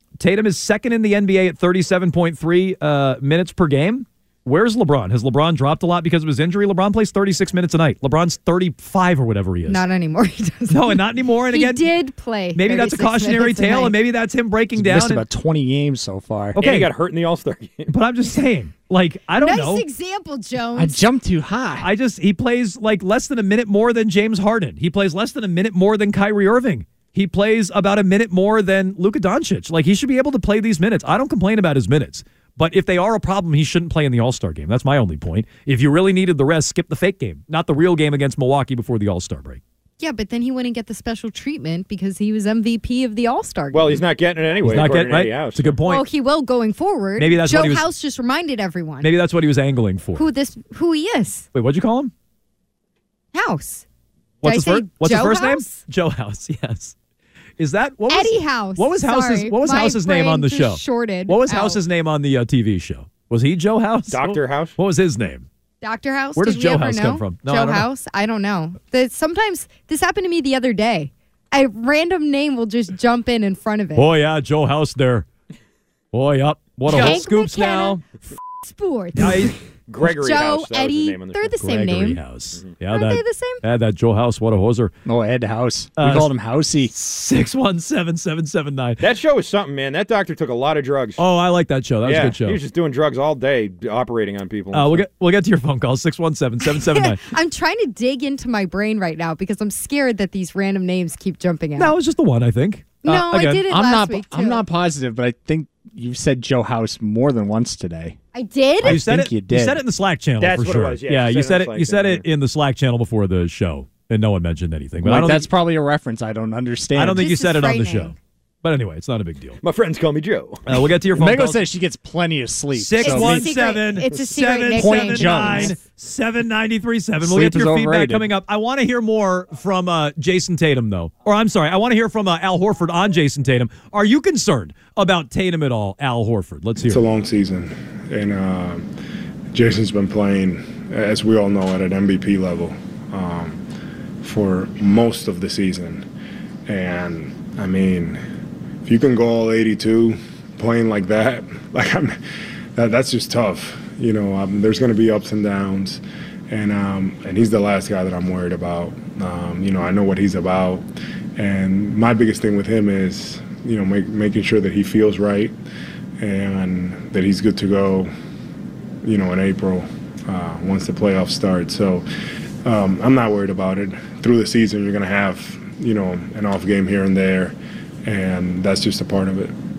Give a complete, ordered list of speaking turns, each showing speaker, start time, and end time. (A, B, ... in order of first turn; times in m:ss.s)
0:00.2-0:09.8 A
0:09.7-0:11.0 B
0:10.7-0:11.9 A
0:11.5-0:13.9 B
0:12.5-0:15.2 A
0:14.7-0:16.6 C
0:16.5-0:16.9 A
0:16.5-0:17.9 D
0:17.9-0:19.8 A
0:19.4-0:21.0 B
0:20.7-0:21.9 C
0:21.8-0:39.6 A
0:40.0-0:44.0 B
0:43.7-0:45.7 D
0:44.6-0:46.0 A
0:45.9-0:49.1 B
0:47.2-0:47.9 A
0:49.0-0:50.2 A
0:50.1-0:51.5 B
0:51.5-0:52.1 A
0:53.3-0:53.8 B
0:54.4-0:56.9 A
0:54.4-0:55.8 B
0:57.6-1:05.5 A
0:58.1-1:01.8 B
1:04.1-1:04.8 D
1:05.8-1:14.1 B
1:06.4-1:07.9 A
1:14.0-1:15.2 A
1:16.1-1:18.0 A
1:16.9-1:22.2 B
1:19.2-1:19.5 A
1:19.9-1:21.5 D
1:21.6-1:24.9 A
1:22.9-1:23.6 B
1:25.0-1:26.9 C
1:26.0-1:26.3 A
1:26.9-1:29.0 A
1:29.0-1:31.2 D
1:31.2-1:32.6 A
1:32.0-1:35.0 D
1:34.7-1:37.2 A
1:36.7-1:41.9 B
1:41.8-1:43.6 A
1:43.0-1:44.6 B
1:43.7-1:48.2 C
1:48.3-1:49.0 B
1:48.8-1:49.8 C
1:48.8-1:55.5 A
1:50.4-1:52.2 D
1:55.0-1:57.3 C
1:57.0-1:59.6 A
1:57.1-1:58.2 B
1:59.6-2:00.6 D
2:00.6-2:01.6 A
2:01.1-2:03.5 C
2:02.7-2:17.0 A
2:03.0-2:05.8 B
2:04.7-2:05.8 C
2:07.2-2:08.3 C
2:16.9-2:18.9 E
2:19.5-2:23.6 E
2:24.2-2:26.0 E
2:26.7-2:28.2 E
2:28.8-2:32.2 E
2:32.8-2:40.8 E
2:41.4-2:45.5 E
2:46.2-2:48.1 E
2:49.0-2:52.0 E
2:52.6-2:59.5 E